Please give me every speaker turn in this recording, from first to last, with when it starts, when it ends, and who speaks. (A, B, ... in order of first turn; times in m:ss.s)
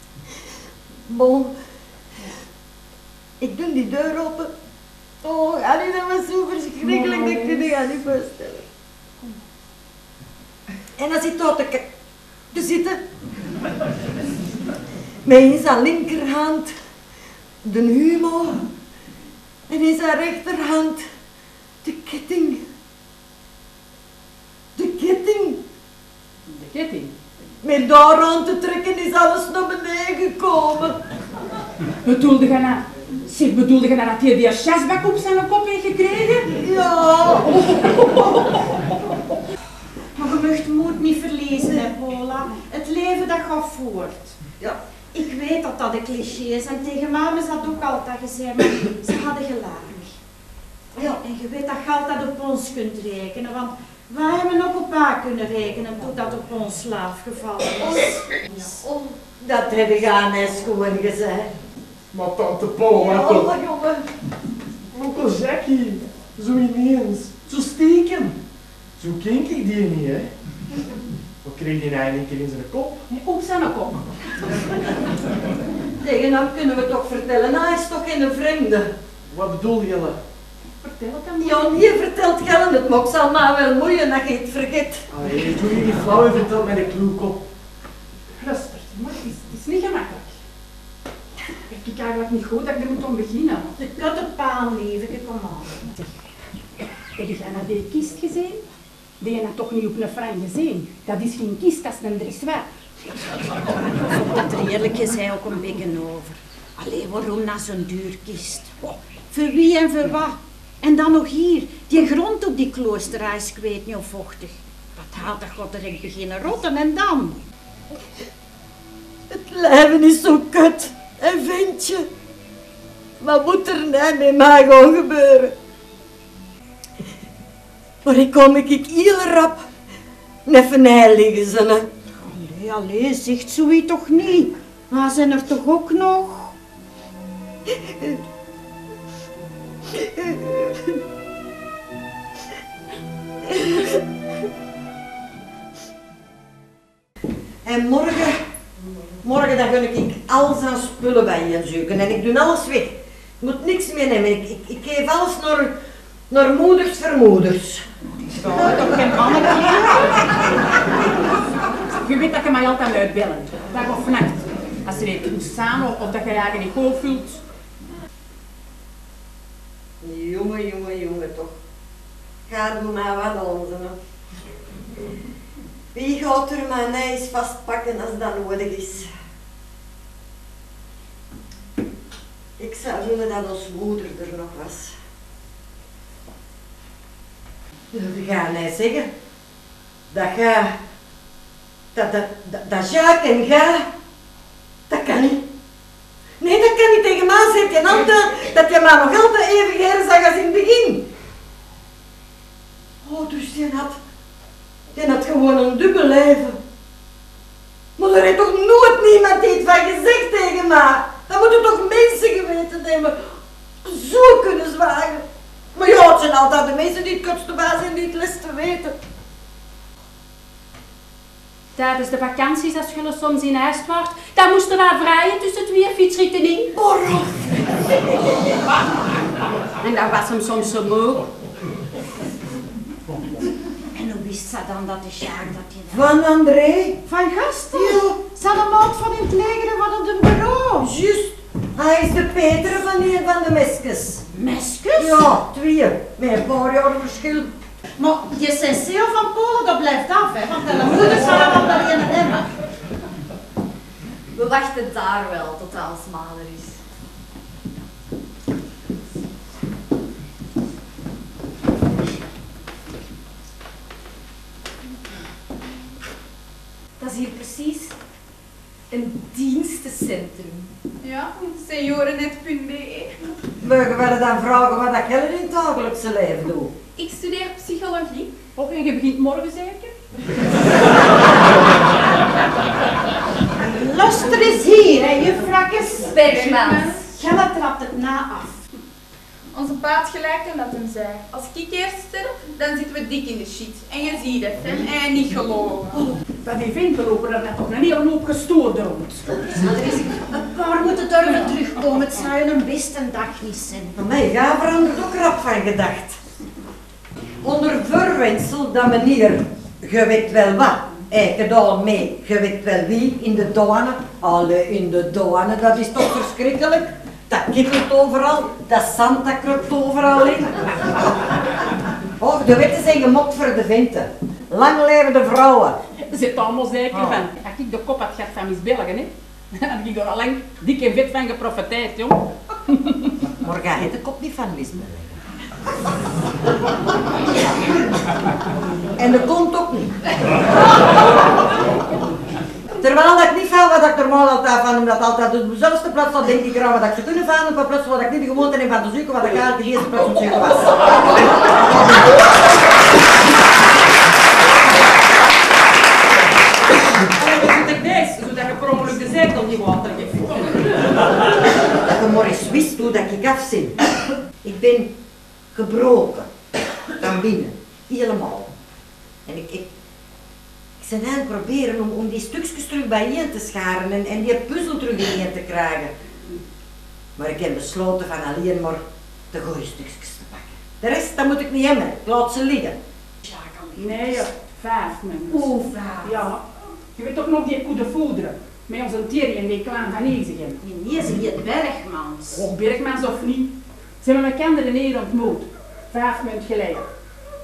0:01.1-0:01.6 A
0:03.4-0:04.5 A
0:05.2-0:08.6 A
0:06.8-0:07.7 B
0:11.0-0:11.9 A
0:12.5-0:13.0 A
0:15.2-0:16.7 A
0:17.6-0:18.7 A
0:19.7-0:21.0 A
0:21.8-0:22.6 A
0:24.8-0:25.6 A
0:26.5-0:27.1 B
0:27.6-0:31.0 A
0:32.0-0:36.6 B
0:36.4-0:37.7 A
0:37.7-0:38.3 B
0:40.2-0:44.4 C
0:45.1-0:50.2 C
0:51.0-0:58.8 C
0:58.8-1:01.5 A
1:02.1-1:03.5 D
1:02.9-1:04.1 A
1:04.9-1:08.3 D
1:09.0-1:10.3 D
1:11.4-1:13.0 D
1:13.1-1:14.1 B
1:16.0-1:18.9 A
1:19.3-1:20.2 D
1:20.8-1:21.8 B
1:21.4-1:25.1 A
1:25.1-1:27.4 D
1:28.4-1:30.4 B
1:31.7-1:33.8 B
1:33.8-1:35.9 C
1:37.2-1:38.6 B
1:39.2-1:42.7 B
1:43.6-1:57.4 C
1:59.3-2:02.1 A
2:03.2-2:05.5 A
2:08.0-2:09.7 A
2:10.5-2:11.9 A
2:12.2-2:16.5 C
2:17.8-2:18.2 A
2:20.0-2:20.8 A
2:23.5-2:24.0 A
2:27.6-2:28.4 A
2:29.2-2:35.7 A
2:36.3-2:37.8 A
2:38.3-2:40.2 C
2:41.9-2:47.4 B
2:50.0-2:51.6 A
2:52.5-2:54.0 A
2:55.9-2:59.1 A
3:02.6-3:04.9 A
3:07.9-3:09.1 A
3:10.1-3:10.7 A
3:11.9-3:13.9 A
3:14.9-3:15.4 A
3:16.4-3:21.1 A
3:23.0-3:24.0 A
3:24.9-3:26.6 A
3:28.0-3:35.2 A
3:35.8-3:39.0 A
3:41.8-3:46.7 B
3:46.7-3:48.0 A
3:49.8-3:51.3 B
3:54.0-3:56.1 C
3:55.9-3:57.0 A
3:57.1-4:00.9 C
3:57.8-3:58.1 A
4:00.8-4:04.2 A
4:04.3-4:05.3 C
4:05.0-4:07.5 A
4:08.0-4:12.5 C
4:14.3-4:16.8 E
4:27.0-4:27.9 E
4:28.9-4:30.7 E
4:31.0-4:33.2 F
4:33.6-4:36.7 A
4:37.0-4:38.3 F
4:38.6-4:39.9 B
4:43.6-4:48.6 C
4:46.1-4:47.0 E
4:46.4-4:47.0 F
4:49.5-4:56.0 F
4:56.4-4:59.3 B
4:59.6-5:03.9 C
5:04.0-5:06.2 A
5:07.4-5:21.3 A
5:22.2-5:25.8 A
5:26.1-5:33.2 B
5:26.9-5:27.2 A
5:33.3-5:35.2 A
5:39.0-5:40.0 A
5:42.8-5:52.0 A
5:57.1-6:00.9 B
6:01.8-6:03.8 A
6:04.4-6:04.9 A
6:05.5-6:06.3 A
6:07.0-6:08.5 A
6:09.3-6:09.7 A
6:10.8-6:15.9 A
6:17.2-6:22.8 A
6:23.2-6:24.2 C
6:23.8-6:25.5 B
6:25.3-6:26.2 C
6:26.0-6:26.4 B
6:27.0-6:30.6 B
6:30.6-6:32.4 C
6:32.3-6:36.9 B